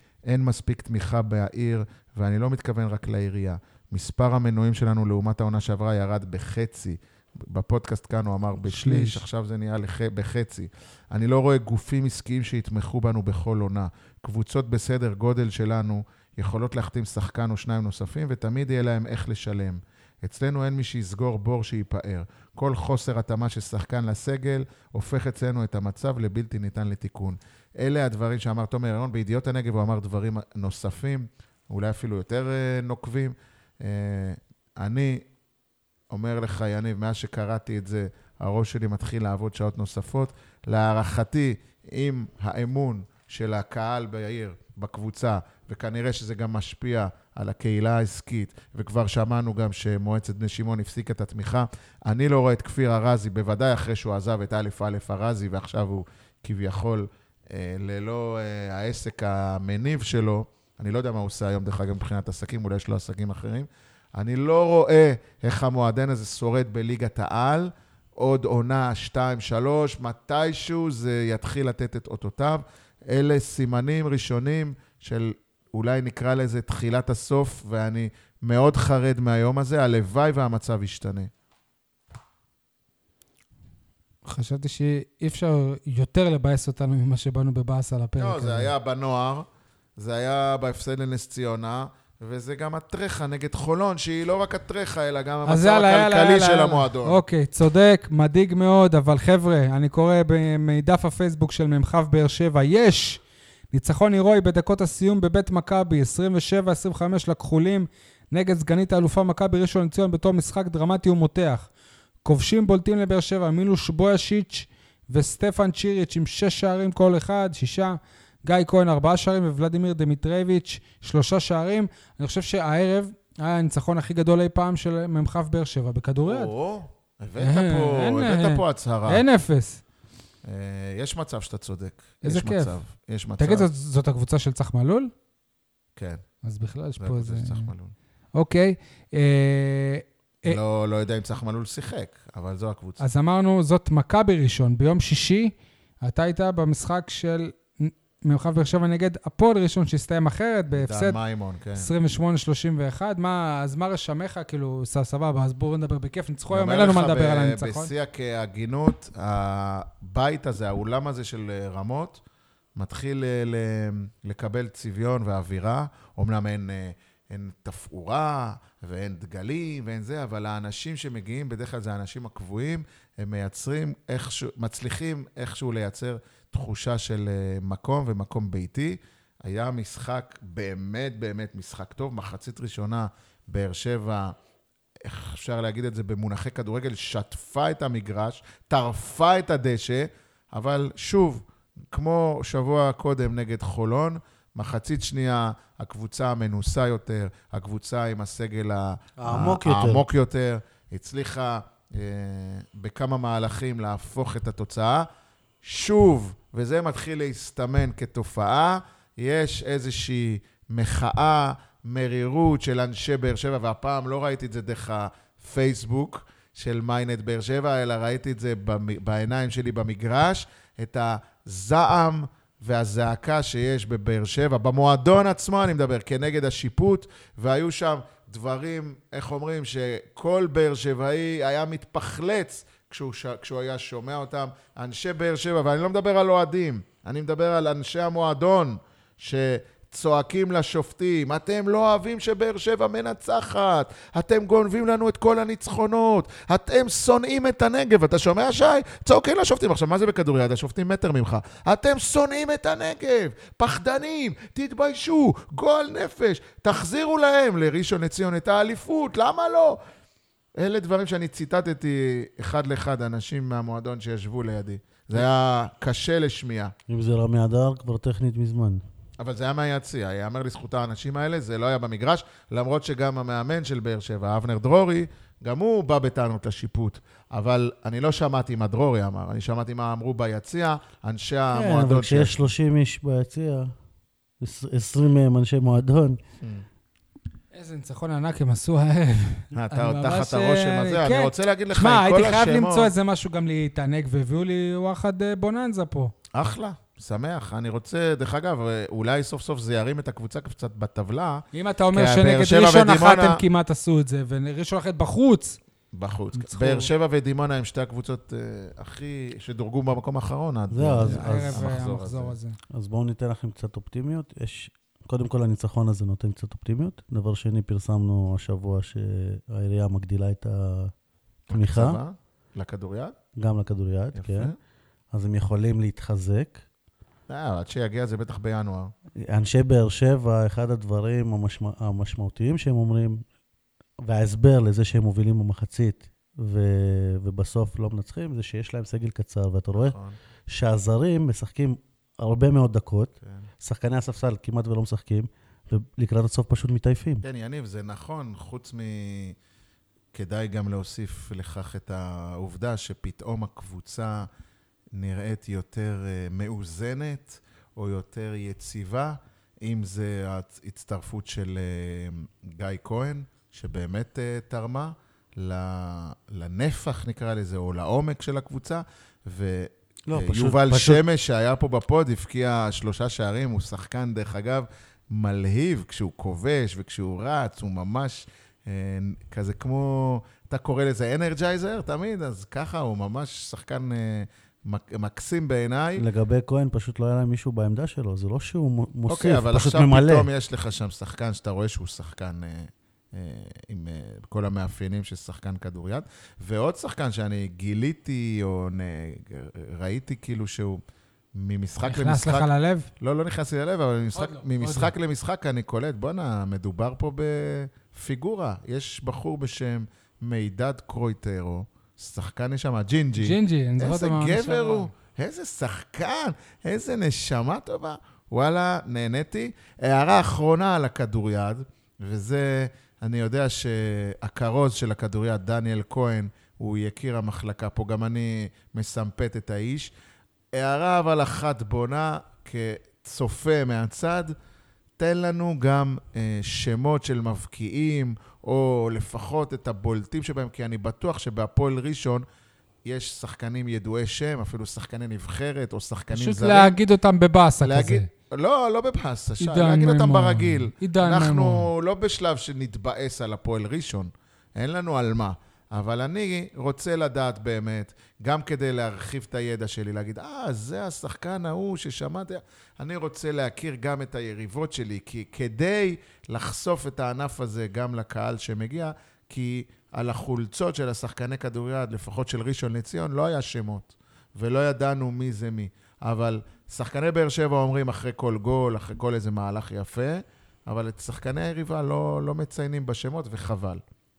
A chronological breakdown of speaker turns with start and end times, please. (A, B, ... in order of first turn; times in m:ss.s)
0:00.2-0:35.2 A
0:08.6-0:09.2 B
0:36.1-1:21.3 A
1:24.2-1:28.7 B
1:28.2-1:29.4 A
1:30.0-1:37.2 A
1:35.4-1:51.7 B
1:52.2-2:06.5 B
2:06.2-2:09.2 A
2:07.4-2:09.8 B
2:10.4-2:13.7 A
2:12.2-2:12.7 B
2:13.4-2:15.1 B
2:16.0-2:16.2 A
2:16.4-2:17.7 B
2:17.0-2:17.9 A
2:18.3-2:20.6 B
2:20.4-2:23.0 A
2:23.0-2:31.2 B
2:30.7-2:31.9 A
2:31.8-2:37.9 B
2:36.5-2:42.2 A
2:42.8-3:04.3 A
3:05.0-3:25.0 A
3:19.2-3:20.0 C
3:25.6-4:19.8 A
4:20.6-4:26.7 A
4:26.9-4:28.8 C
4:29.2-4:42.4 A
4:41.5-4:43.7 C
4:44.4-4:46.2 C
4:47.5-4:56.1 B
4:49.5-4:52.9 A
4:56.3-5:03.4 A
5:01.5-5:05.6 B
5:05.9-5:12.3 A
5:06.4-5:06.9 B
5:10.7-5:11.7 C
5:11.0-5:12.6 B
5:12.7-5:20.9 C
5:21.5-5:23.1 A
5:21.5-5:22.0 C
5:23.4-5:24.5 C
5:24.1-5:24.6 A
5:25.1-5:26.6 C
5:27.3-5:28.9 A
5:29.2-5:33.2 C
5:34.0-5:39.9 C
5:39.7-5:40.2 A
5:40.5-5:47.2 C
5:47.2-5:49.4 A
5:50.1-5:54.3 A
5:54.9-6:26.0 A
6:10.1-6:11.0 C
6:26.0-6:30.3 C
6:29.1-6:40.8 A
6:41.3-6:42.5 A
6:41.8-6:42.9 B
6:43.0-7:09.9 A
6:44.1-6:44.9 B
6:53.2-6:54.9 B
7:10.5-7:14.3 A
7:15.0-7:22.2 A
7:22.8-7:26.8 A
7:26.1-7:28.1 B
7:27.6-8:03.8 A
7:29.4-7:31.7 B